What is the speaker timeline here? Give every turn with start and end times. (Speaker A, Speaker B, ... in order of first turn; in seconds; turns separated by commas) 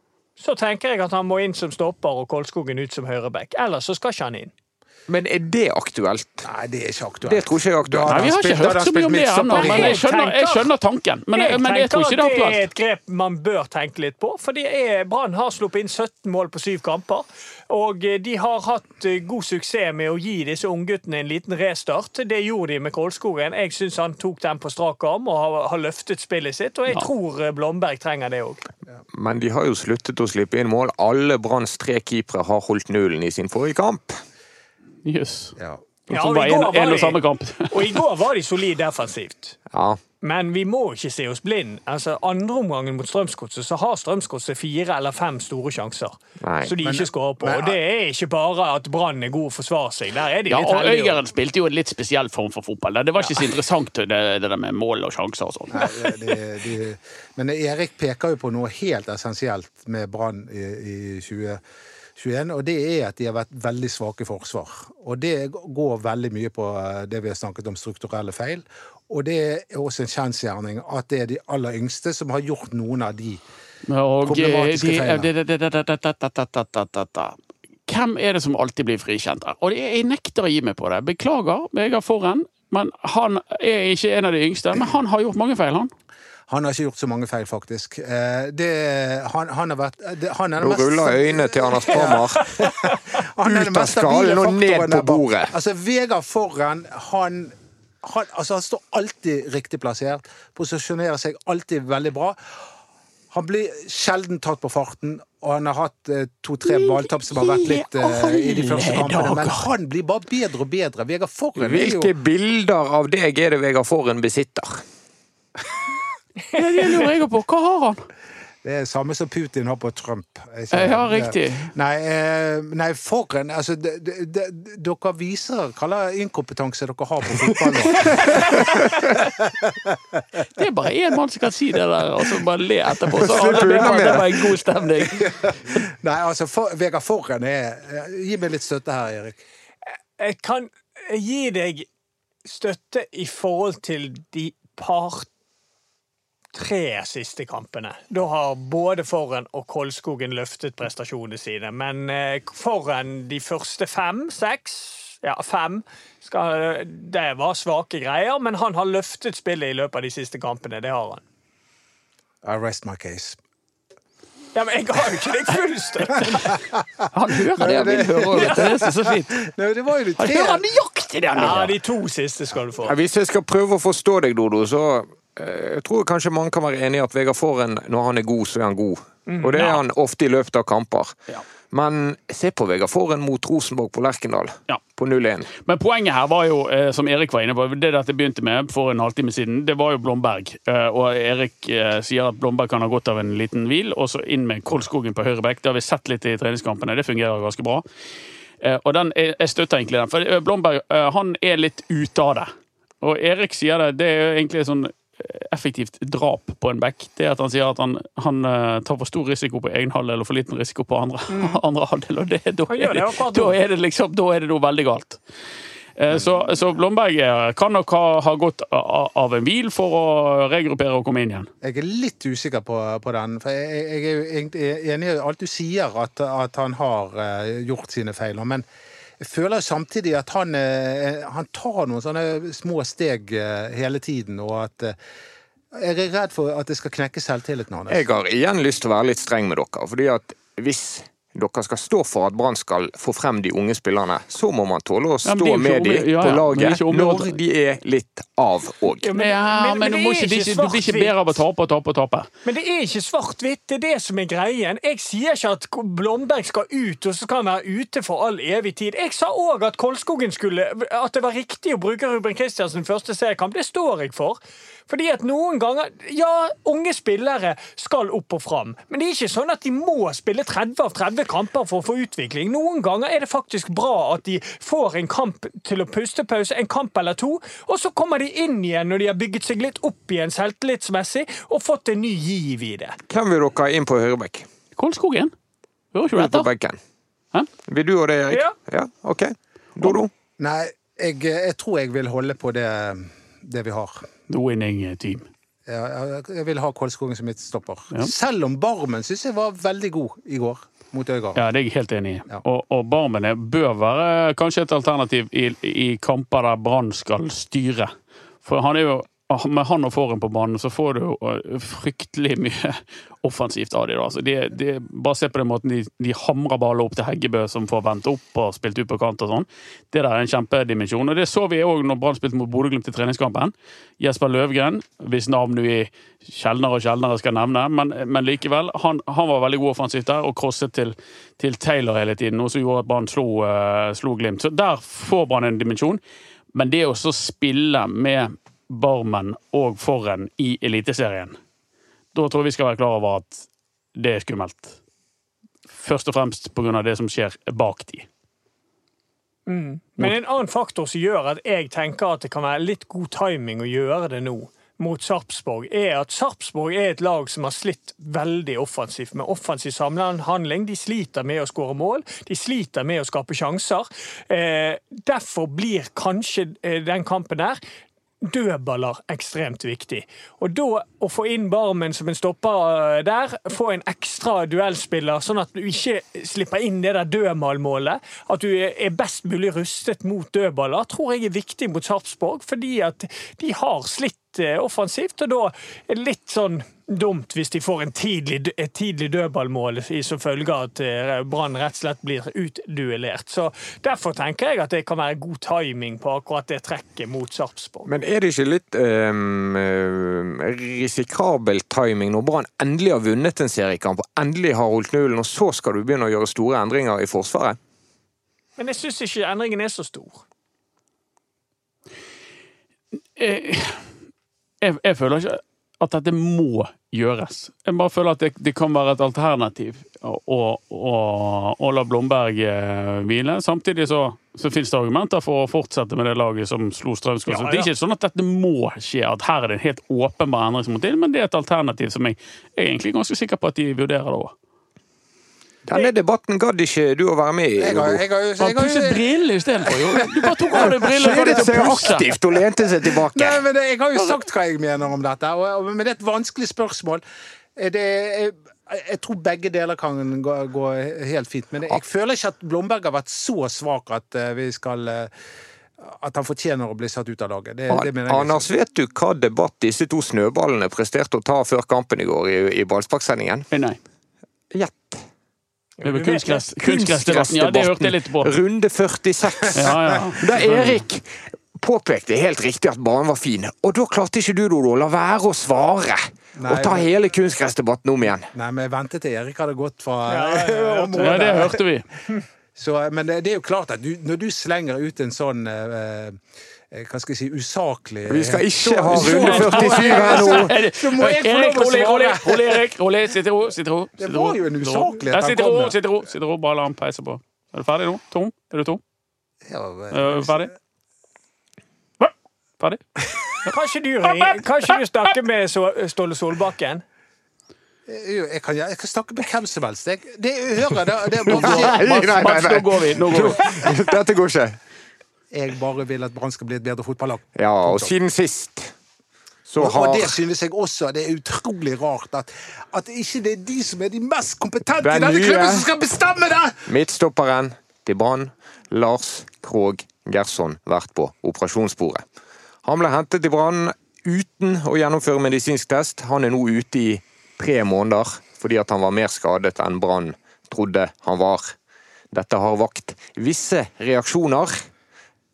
Speaker A: 0.4-4.5, Speaker B: 5.1-6.5, Speaker C: 6.4-10.0, Speaker B: 7.2-8.3, Speaker D: 8.1-12.7, Speaker A: 9.5-10.7, Speaker A: 11.3-28.6, Speaker B: 29.1-34.2, Speaker D: 35.0-35.6, Speaker D: 36.1-38.0, Speaker A: 36.1-37.2, Speaker A: 37.7-39.6, Speaker B: 39.7-40.0, Speaker A: 40.2-51.2, Speaker B: 46.4-46.8, Speaker C: 46.8-47.8, Speaker D: 50.5-56.2, Speaker C: 55.7-61.6, Speaker C: 62.2-73.4, Speaker D: 73.9-85.9, Speaker C: 74.2-75.3, Speaker C: 86.5-102.4, Speaker B: 90.6-92.7, Speaker B: 93.5-95.5, Speaker C: 103.3-112.1, Speaker D: 106.7-109.7, Speaker B: 111.6-114.8, Speaker D: 116.5-118.1, Speaker C: 118.6-130.2, Speaker D: 120.7-121.7, Speaker B: 128.1-129.2, Speaker D: 130.6-135.8, Speaker B: 133.1-134.6, Speaker C: 133.8-134.2, Speaker C: 135.0-139.4, Speaker A: 140.2-141.9, Speaker A: 142.4-145.3, Speaker A: 146.5-161.2, Speaker C: 162.4-163.4, Speaker A: 164.6-166.6, Speaker C: 166.2-170.7, Speaker D: 167.1-169.4, Speaker D: 170.2-171.7, Speaker A: 171.3-172.9, Speaker B: 172.8-181.2, Speaker A: 179.3-179.8, Speaker B: 181.7-185.5, Speaker D: 185.6-197.8, Speaker D: 198.6-202.5, Speaker D: 203.0-215.2, Speaker A: 211.3-211.6, Speaker A: 212.7-213.6, Speaker D: 216.0-221.5, Speaker C: 221.6-228.7, Speaker C: 229.2-235.0, Speaker C: 235.7-238.1, Speaker B: 237.9-249.1, Speaker D: 245.2-247.4, Speaker A: 249.0-251.4, Speaker D: 249.2-252.3, Speaker A: 252.4-283.0, Speaker B: 283.1-284.5, Speaker D: 284.8-285.3, Speaker D: 285.9-286.5, Speaker B: 286.2-286.8, Speaker B: 287.6-290.1, Speaker C: 290.4-294.1, Speaker D: 294.3-295.3, Speaker C: 295.7-301.4, Speaker D: 301.4-307.9, Speaker D: 308.4-336.0, Speaker D: 336.5-341.4, Speaker D: 342.1-344.8, Speaker D: 345.7-348.1, Speaker A: 349.5-367.6, Speaker A: 368.2-397.9, Speaker B: 397.9-407.6, Speaker A: 408.6-410.2, Speaker D: 413.2-413.9, Speaker D: 414.6-434.3, Speaker A: 427.3-427.7, Speaker B: 435.7-438.0, Speaker C: 437.6-439.0, Speaker D: 438.4-442.1, Speaker C: 439.6-442.1, Speaker B: 440.9-443.4, Speaker C: 442.8-447.0, Speaker C: 447.6-455.1, Speaker C: 455.8-458.5, Speaker B: 457.7-463.5, Speaker D: 463.5-463.8, Speaker B: 464.5-465.0, Speaker A: 465.8-466.5, Speaker D: 465.8-468.4, Speaker B: 466.6-478.3, Speaker D: 469.5-470.8, Speaker C: 476.4-476.9, Speaker C: 478.3-481.6, Speaker A: 480.1-481.5, Speaker D: 481.0-481.9, Speaker C: 482.6-492.6, Speaker B: 488.1-490.5, Speaker D: 488.9-498.8, Speaker C: 494.0-495.8, Speaker C: 499.5-500.5, Speaker D: 499.9-500.5, Speaker A: 503.4-506.8, Speaker C: 507.9-512.5, Speaker D: 511.3-513.7, Speaker B: 511.3-514.6, Speaker C: 515.3-517.9, Speaker B: 517.4-518.7, Speaker B: 519.5-520.2, Speaker C: 519.6-526.7, Speaker B: 524.8-525.7, Speaker B: 526.7-532.0, Speaker B: 532.6-541.5, Speaker B: 542.1-544.5